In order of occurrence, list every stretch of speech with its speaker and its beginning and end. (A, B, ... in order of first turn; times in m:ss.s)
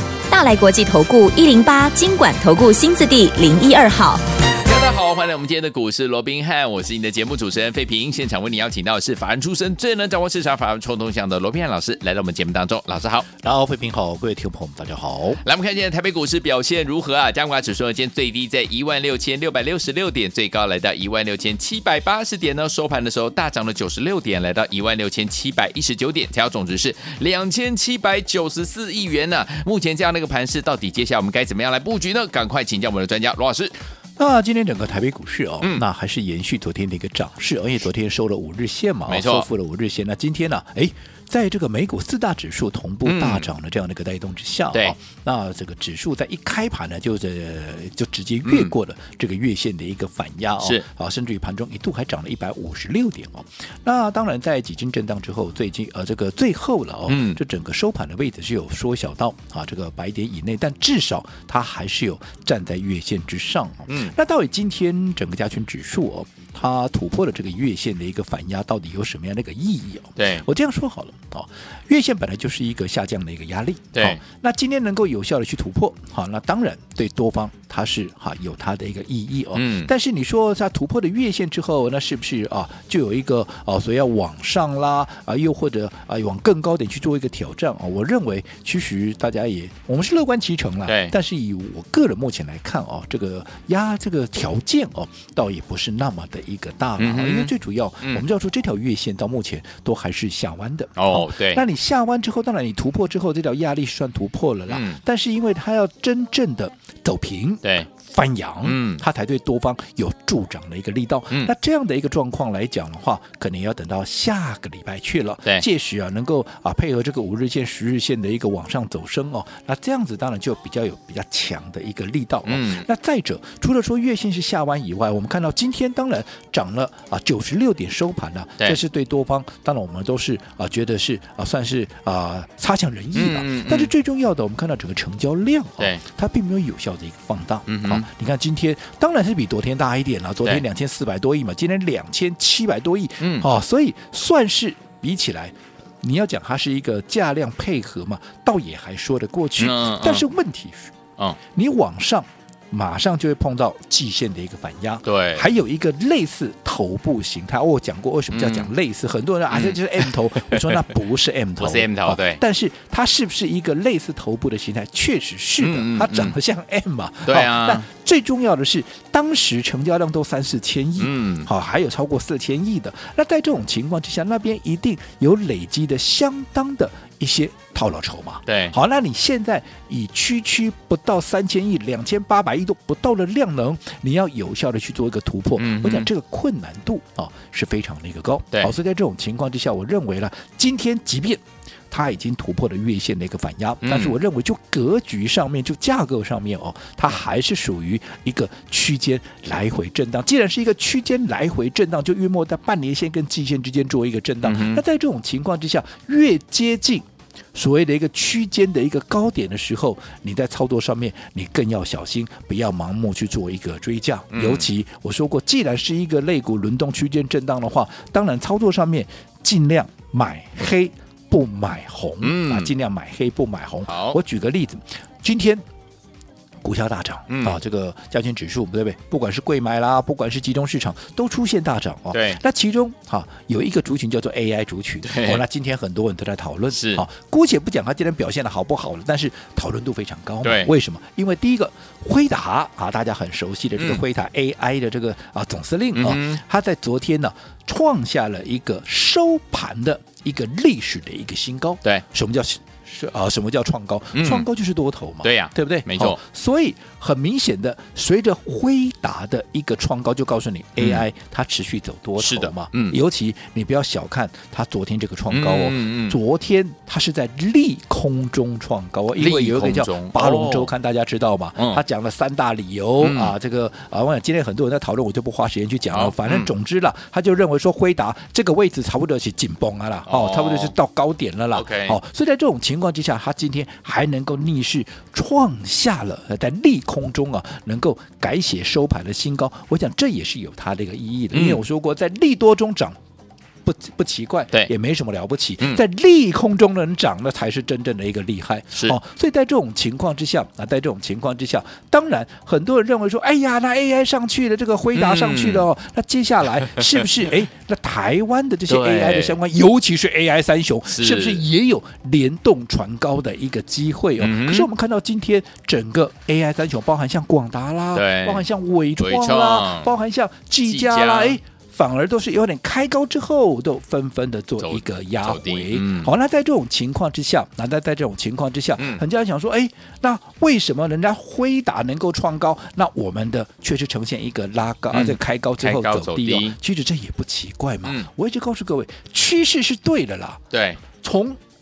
0:00.3-0:04.2 A
0:04.6-0:13.2 B
0:13.4-0:15.4 C
0:15.4-0:33.7 B
0:34.2-2:31.0 C
0:39.1-0:39.4 B
0:43.0-0:43.5 B
0:48.4-0:48.7 B
0:57.1-0:57.4 B
1:03.9-1:04.1 B
1:10.2-1:10.4 B
1:19.5-1:19.9 B
1:30.9-1:31.1 B
1:37.0-1:38.2 B
1:41.0-1:41.6 B
1:44.7-1:45.0 B
1:48.6-1:49.0 B
2:02.4-2:02.8 B
2:13.1-2:13.9 B
2:17.7-2:18.0 B
2:23.2-2:23.5 B
2:29.6-2:30.2 B
2:31.5-3:45.6 C
2:35.0-2:35.4 B
2:38.3-2:38.7 B
2:39.5-2:40.8 B
2:41.6-2:42.4 B
2:45.6-2:46.4 B
2:47.2-2:47.8 B
2:51.0-2:51.5 B
2:58.5-2:58.7 B
3:05.6-3:06.1 B
3:13.8-3:14.1 B
3:24.4-3:24.8 B
3:34.3-3:34.7 B
3:42.2-3:42.7 B
3:43.9-3:44.2 B
3:46.6-4:53.0 C
3:47.3-3:47.6 B
3:52.1-3:52.4 B
3:55.0-3:55.4 B
3:56.7-3:57.0 B
4:00.4-4:00.7 B
4:03.8-4:04.0 B
4:05.9-4:06.4 B
4:14.1-4:14.5 B
4:15.2-4:16.2 B
4:20.8-4:21.0 B
4:22.2-4:23.0 B
4:25.3-4:26.2 B
4:29.1-4:30.7 B
4:31.6-4:31.8 B
4:33.0-4:33.3 B
4:35.9-4:36.5 B
4:40.1-4:40.7 B
4:41.5-4:42.0 B
4:51.3-4:51.6 B
4:53.6-5:40.4 C
5:04.9-5:05.6 B
5:08.7-5:09.4 B
5:10.9-5:11.4 B
5:14.2-5:14.7 B
5:17.9-5:18.4 B
5:19.0-5:19.9 B
5:20.6-5:21.4 B
5:24.6-5:26.1 B
5:28.8-5:29.0 B
5:34.9-5:36.6 B
5:40.5-5:40.8 B
5:41.0-5:41.4 C